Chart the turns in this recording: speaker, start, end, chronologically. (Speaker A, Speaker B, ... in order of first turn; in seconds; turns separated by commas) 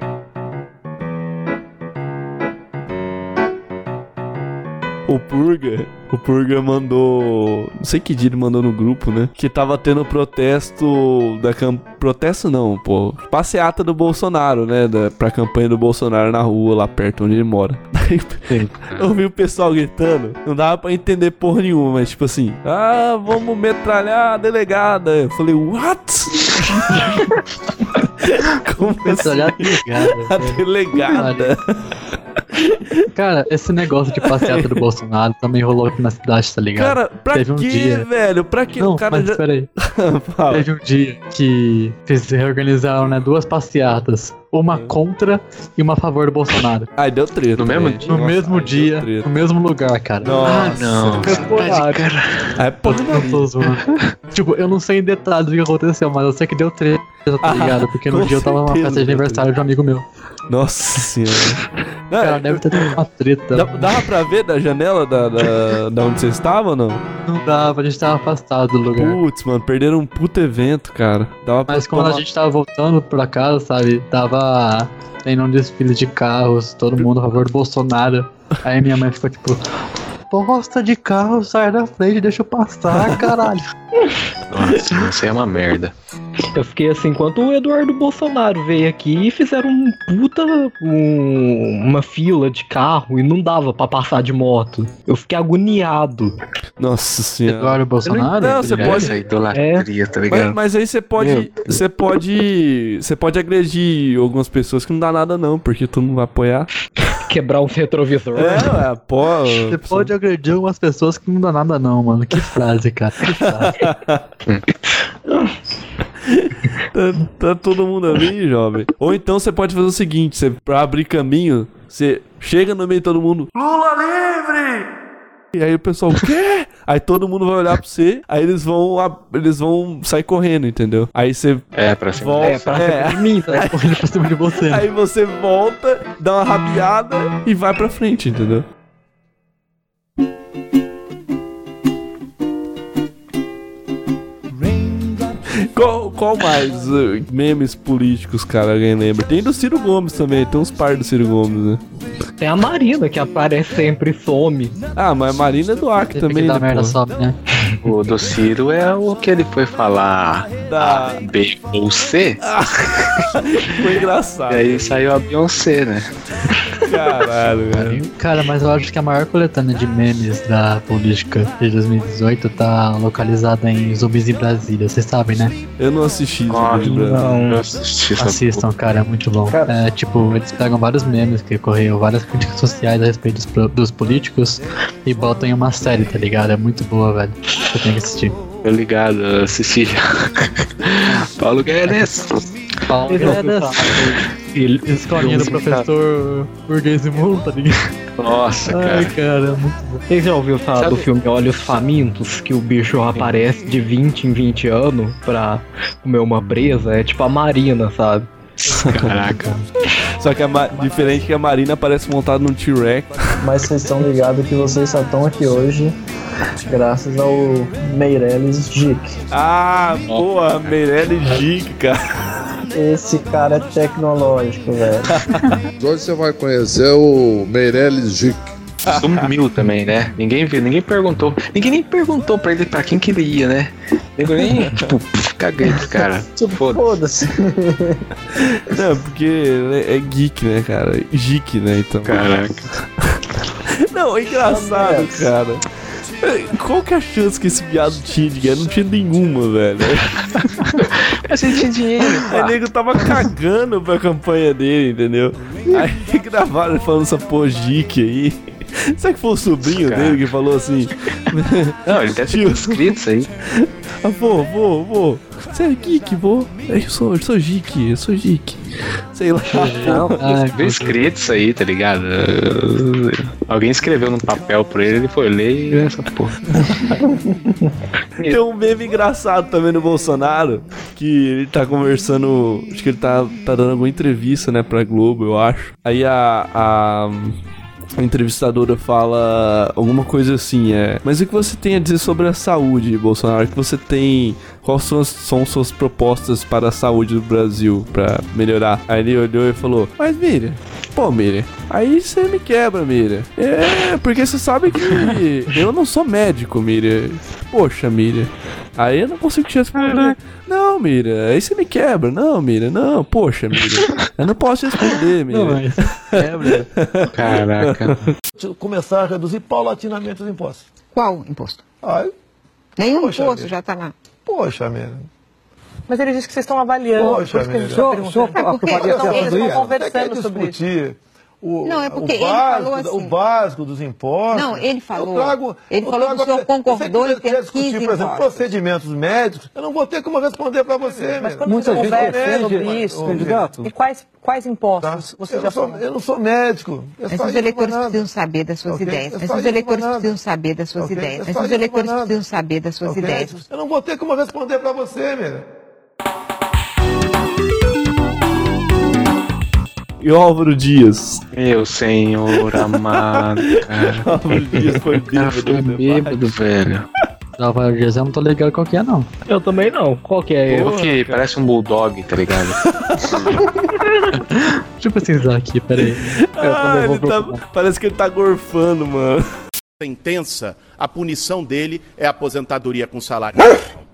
Speaker A: 5.1-27.0, Speaker B: 18.8-19.1, Speaker A: 28.2-31.7, Speaker C: 28.8-31.6, Speaker C: 33.1-38.1, Speaker A: 34.2-34.8, Speaker A: 36.8-40.6, Speaker C: 38.7-39.7, Speaker C: 40.5-46.9, Speaker A: 47.0-49.3, Speaker B: 47.6-48.0, Speaker C: 48.1-50.4, Speaker A: 50.2-51.7, Speaker B: 50.3-52.5, Speaker C: 51.3-51.9, Speaker D: 51.3-52.0, Speaker A: 52.6-53.5, Speaker C: 52.8-60.0, Speaker A: 57.4-59.5, Speaker A: 60.5-63.0, Speaker C: 62.2-64.1, Speaker A: 63.5-67.0, Speaker C: 67.2-69.2, Speaker A: 69.0-72.2, Speaker C: 71.7-79.6, Speaker C: 80.3-83.7, Speaker B: 84.5-85.9, Speaker D: 86.5-96.3, Speaker A: 96.8-99.1, Speaker C: 97.5-99.0, Speaker B: 98.5-100.6, Speaker D: 99.5-99.8, Speaker A: 100.3-106.7, Speaker B: 101.2-101.7, Speaker D: 107.2-108.8, Speaker A: 108.3-110.1, Speaker C: 109.4-113.8, Speaker A: 113.4-114.2, Speaker A: 116.2-124.8, Speaker A: 125.5-133.8, Speaker B: 131.7-132.7, Speaker D: 132.4-133.7, Speaker C: 133.4-134.9, Speaker A: 134.7-138.6, Speaker A: 145.5-151.8, Speaker D: 152.4-154.8, Speaker A: 154.9-157.0, Speaker C: 156.1-157.4, Speaker B: 157.8-162.4, Speaker A: 160.6-161.2, Speaker A: 162.4-165.0, Speaker B: 164.5-166.1, Speaker A: 166.8-168.1, Speaker C: 167.9-175.6, Speaker A: 175.8-177.4, Speaker B: 176.5-178.7, Speaker D: 176.9-177.6, Speaker C: 178.2-188.4, Speaker E: 179.5-179.8, Speaker B: 188.6-192.6, Speaker C: 192.9-194.2, Speaker D: 193.1-193.9, Speaker B: 193.2-194.2, Speaker D: 194.5-195.7, Speaker C: 194.8-197.9, Speaker B: 195.2-195.9, Speaker B: 198.2-199.1, Speaker C: 198.7-200.0, Speaker D: 200.1-208.3, Speaker B: 200.8-201.1, Speaker B: 208.6-209.6, Speaker A: 208.8-209.1, Speaker A: 210.2-213.2, Speaker E: 213.4-216.0, Speaker E: 216.7-219.2, Speaker A: 219.3-222.0, Speaker E: 222.7-225.2, Speaker A: 225.1-225.6, Speaker F: 225.8-228.5, Speaker A: 228.8-229.1, Speaker B: 228.9-236.9, Speaker E: 236.3-238.0, Speaker A: 238.4-242.4, Speaker B: 242.1-242.7, Speaker A: 243.8-245.6, Speaker E: 244.4-245.0, Speaker A: 246.2-250.1, Speaker B: 250.4-252.6, Speaker A: 252.2-258.4, Speaker A: 258.9-263.0, Speaker B: 259.6-260.2, Speaker B: 261.8-263.3, Speaker A: 263.5-270.1, Speaker C: 269.5-271.0, Speaker B: 269.9-276.4, Speaker E: 277.0-277.3, Speaker A: 278.2-287.4, Speaker A: 287.9-318.0, Speaker C: 309.8-310.1, Speaker C: 315.3-316.6, Speaker B: 317.1-318.0, Speaker G: 318.4-320.6, Speaker H: 320.9-321.6, Speaker G: 321.8-322.1, Speaker H: 322.8-323.9, Speaker G: 322.9-323.5, Speaker G: 324.2-325.1, Speaker I: 325.9-330.6, Speaker G: 326.9-343.7, Speaker H: 328.1-329.9, Speaker H: 331.6-333.2, Speaker H: 334.3-338.5, Speaker H: 341.0-342.4, Speaker I: 341.0-345.8, Speaker G: 344.8-348.0, Speaker H: 347.1-353.4, Speaker G: 348.6-350.1, Speaker G: 350.7-352.2, Speaker G: 352.8-355.4, Speaker A: 360.0-361.2, Speaker B: 361.3-366.8, Speaker A: 362.4-366.2, Speaker C: 367.4-369.1, Speaker D: 369.3-370.7, Speaker A: 370.5-371.2, Speaker B: 370.5-372.6, Speaker A: 372.6-373.1, Speaker C: 374.4-376.0, Speaker A: 375.9-379.2, Speaker D: 376.4-377.4, Speaker J: 379.8-383.6